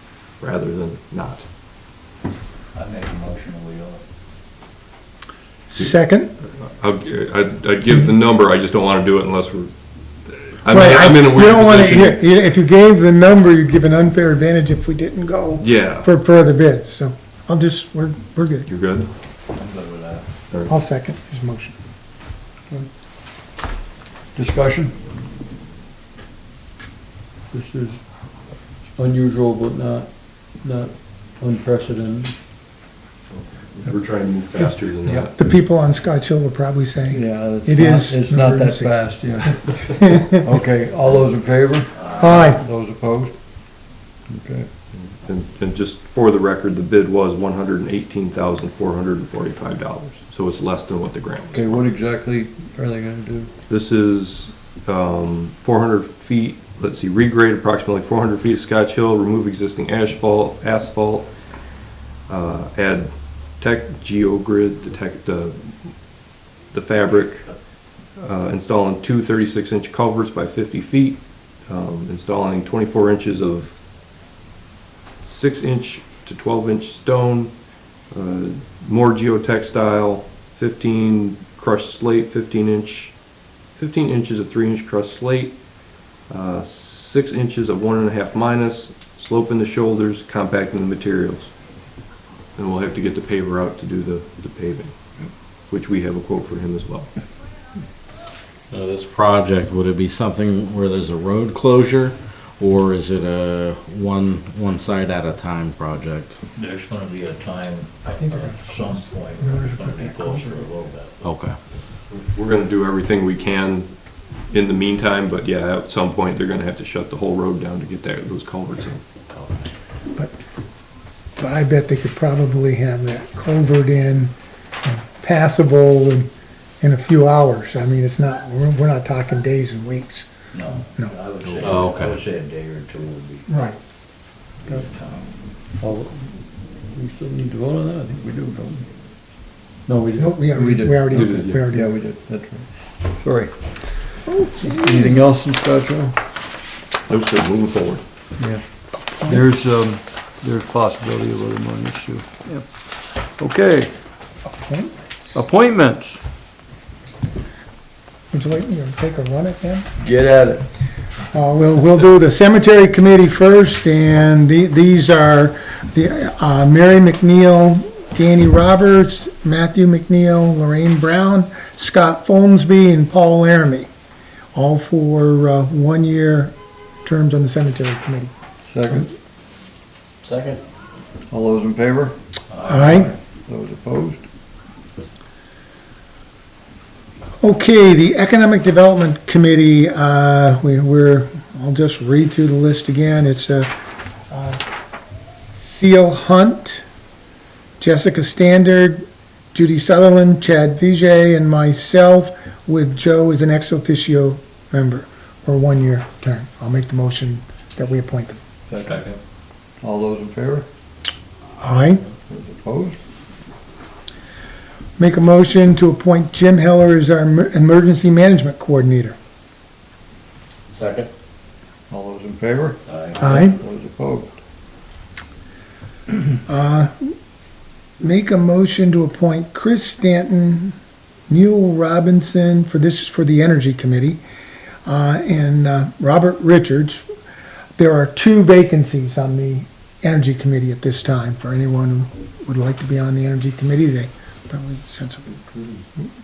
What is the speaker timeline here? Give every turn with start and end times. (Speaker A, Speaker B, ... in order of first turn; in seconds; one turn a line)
Speaker A: 0.4-1.5
Speaker B: 2.7-4.0
Speaker C: 5.7-6.3
Speaker A: 6.5-9.7
Speaker A: 10.3-12.2
Speaker C: 10.7-18.7
Speaker A: 15.6-16.1
Speaker A: 18.7-19.1
Speaker B: 19.5-20.3
Speaker C: 20.7-21.8
Speaker D: 24.4-24.9
Speaker D: 27.5-28.0
Speaker D: 29.0-32.4
Speaker A: 33.8-35.3
Speaker D: 35.0-35.3
Speaker C: 35.4-38.9
Speaker D: 37.1-43.4
Speaker B: 41.9-42.4
Speaker C: 42.2-42.6
Speaker D: 44.3-44.7
Speaker A: 45.0-51.8
Speaker D: 51.5-53.5
Speaker A: 53.7-61.3
Speaker A: 62.3-65.8
Speaker A: 66.7-67.5
Speaker A: 68.2-73.8
Speaker A: 75.2-77.5
Speaker A: 78.1-83.2
Speaker A: 83.8-85.6
Speaker A: 86.3-91.5
Speaker A: 92.6-95.0
Speaker A: 95.7-97.1
Speaker E: 98.7-106.4
Speaker B: 106.5-111.4
Speaker C: 108.2-110.7
Speaker E: 111.2-111.6
Speaker A: 112.1-113.9
Speaker A: 114.5-119.0
Speaker B: 119.3-119.7
Speaker C: 121.4-126.3
Speaker C: 126.8-130.3
Speaker B: 130.5-133.5
Speaker E: 131.5-132.2
Speaker C: 133.5-133.8
Speaker B: 134.6-135.3
Speaker D: 135.8-138.9
Speaker D: 139.8-146.2
Speaker C: 140.2-141.9
Speaker A: 141.1-141.6
Speaker C: 144.3-145.2
Speaker A: 147.1-148.0
Speaker D: 148.4-153.9
Speaker C: 154.6-154.9
Speaker D: 155.3-156.2
Speaker C: 158.3-159.9
Speaker D: 160.0-160.7
Speaker C: 161.3-173.9
Speaker C: 174.5-176.5
Speaker C: 177.1-178.3
Speaker D: 178.7-179.1
Speaker E: 180.2-180.6
Speaker D: 181.3-182.2
Speaker B: 182.5-183.2
Speaker C: 182.7-183.1
Speaker D: 183.5-184.2
Speaker C: 187.4-193.7
Speaker C: 194.3-194.6
Speaker C: 195.6-196.8
Speaker C: 197.8-208.4
Speaker D: 208.7-209.1
Speaker B: 208.7-209.2
Speaker D: 209.8-210.7
Speaker C: 211.6-212.0
Speaker D: 212.3-213.0
Speaker C: 215.0-219.2
Speaker E: 220.7-221.1
Speaker D: 221.9-224.4
Speaker E: 222.9-223.2
Speaker C: 223.2-223.6
Speaker C: 226.5-227.1
Speaker C: 228.0-230.8
Speaker C: 231.3-234.2
Speaker C: 234.9-237.1
Speaker C: 237.8-245.4